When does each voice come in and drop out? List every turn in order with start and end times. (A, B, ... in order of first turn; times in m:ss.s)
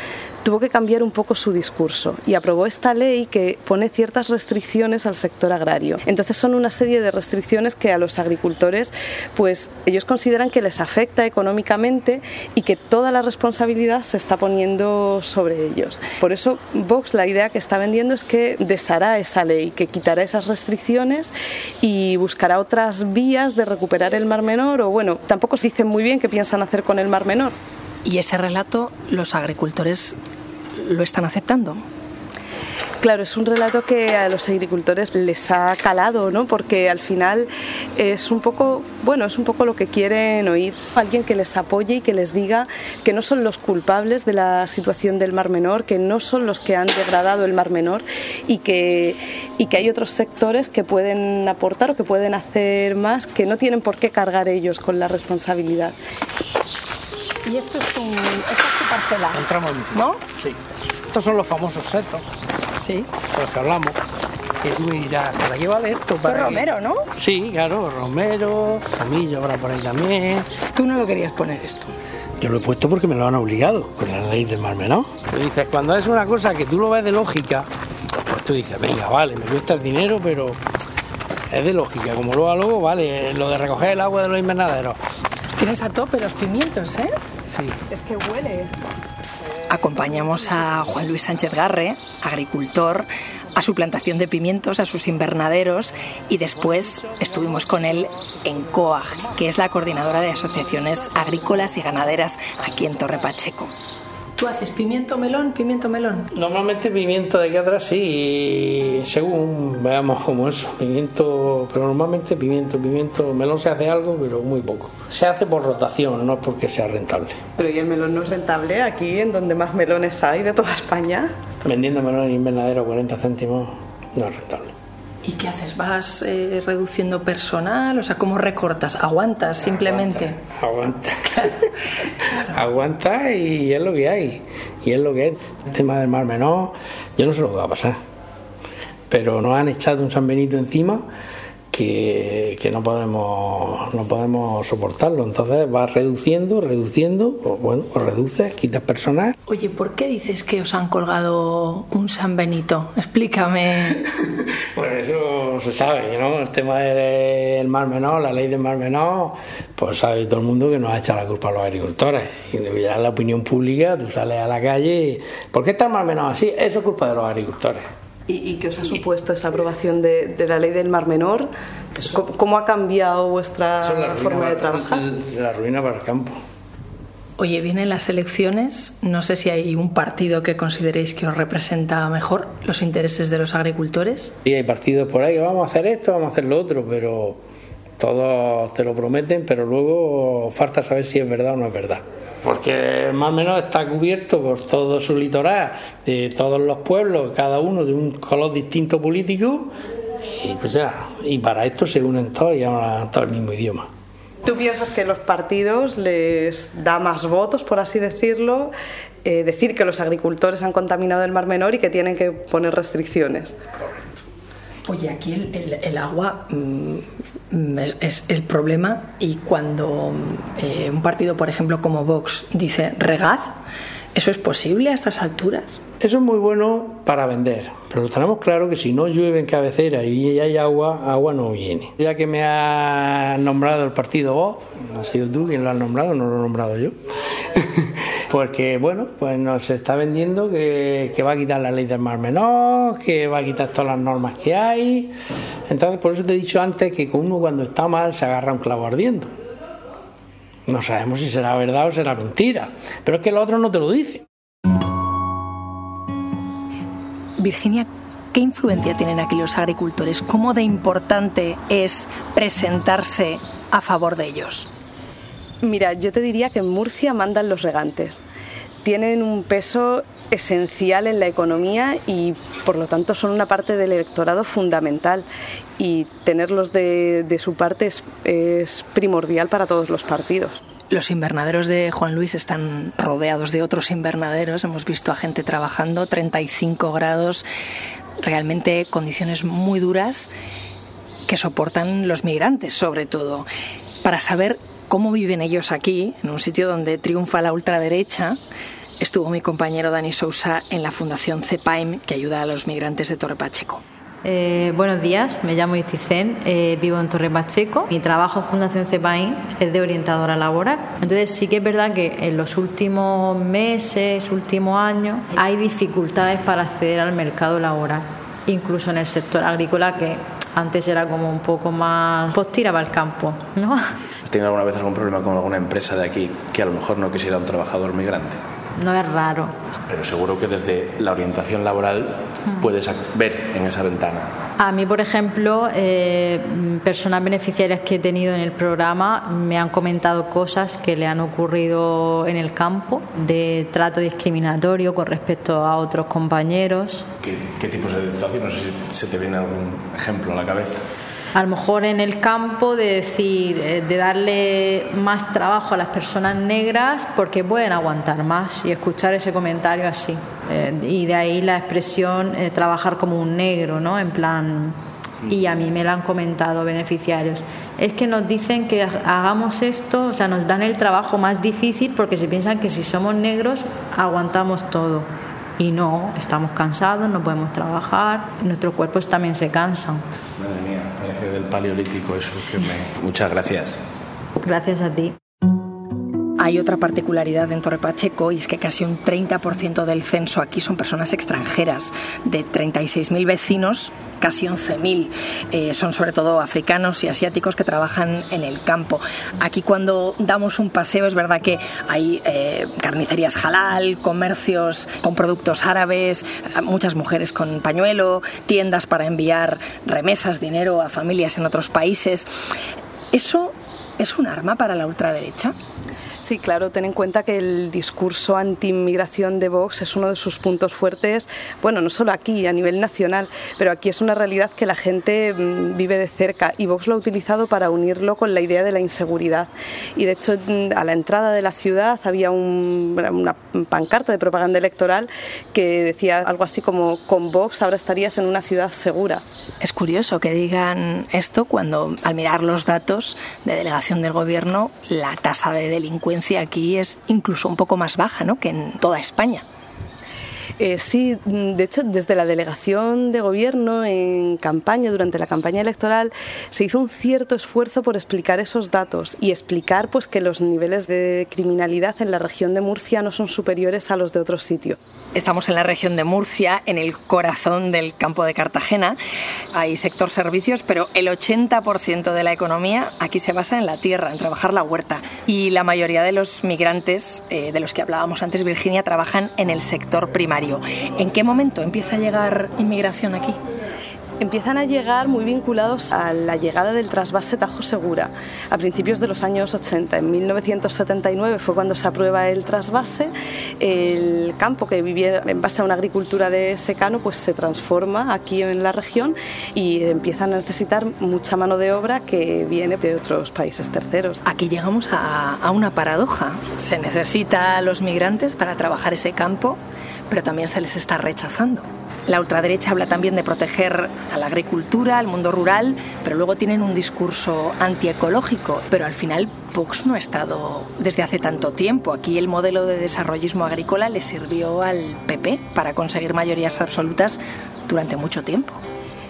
0:00.4-0:27.6 A
0:28.0-0:30.2 B
0:30.8-0:31.8 B
0:33.0-0:56.0 A
0:57.4-1:00.2 B
0:59.3-1:00.6 C
1:01.1-1:02.2 C
1:02.8-1:03.1 B
1:03.2-1:04.0 C
1:04.6-1:06.6 C
1:06.2-1:07.1 B
1:07.2-1:10.5 C
1:10.7-1:11.9 B
1:12.4-1:20.6 C
1:21.5-1:25.0 C
1:25.5-1:27.1 B
1:27.9-1:28.7 A
1:29.7-1:43.7 B
1:44.4-1:46.3 B
1:46.3-1:57.4 C
1:57.6-2:01.3 A
2:01.6-2:04.7 C
2:05.2-2:10.4 B
2:10.5-2:11.5 C
2:12.5-2:18.0 C
2:19.1-2:21.0 C
2:21.7-2:29.4 C
2:29.5-2:34.0 B
2:34.8-2:47.9 C
2:48.3-2:55.0 A
2:53.8-2:56.4 C
2:57.4-3:04.4 B
3:04.4-3:07.4 C
3:08.0-3:19.7 C
3:20.3-3:23.9 C
3:24.4-3:28.7 A
3:29.2-3:33.6 A
3:34.9-3:43.5 B
3:44.1-3:45.8 B
3:46.0-3:57.0 C
3:57.6-4:05.1 C
4:05.7-4:09.3 C
4:10.7-4:14.2 C
4:17.4-4:24.7 B
4:25.6-4:28.2 A
4:28.8-4:35.2 A
4:35.8-4:40.6 A
4:40.9-4:47.5 B
4:48.2-4:50.3 B
4:51.3-4:53.5 B
4:54.0-4:58.4 B
4:59.0-5:03.8 B
5:04.2-5:23.9 D
5:24.2-5:28.4 E
5:28.8-5:29.6 D
5:29.9-5:34.3 E
5:34.6-5:47.1 D
5:47.2-5:50.8 E
5:51.3-6:20.0 D
6:20.4-6:23.8 E
6:24.4-6:25.1 D
6:26.4-6:52.3 B
6:53.1-6:55.6 B
6:56.2-7:19.2 A
7:19.6-7:29.4 B
7:30.6-7:44.8 A
7:45.1-7:49.0 B
7:49.5-8:03.4 B
8:04.2-8:24.2 A
8:24.2-8:29.6 B
8:30.1-8:48.6 B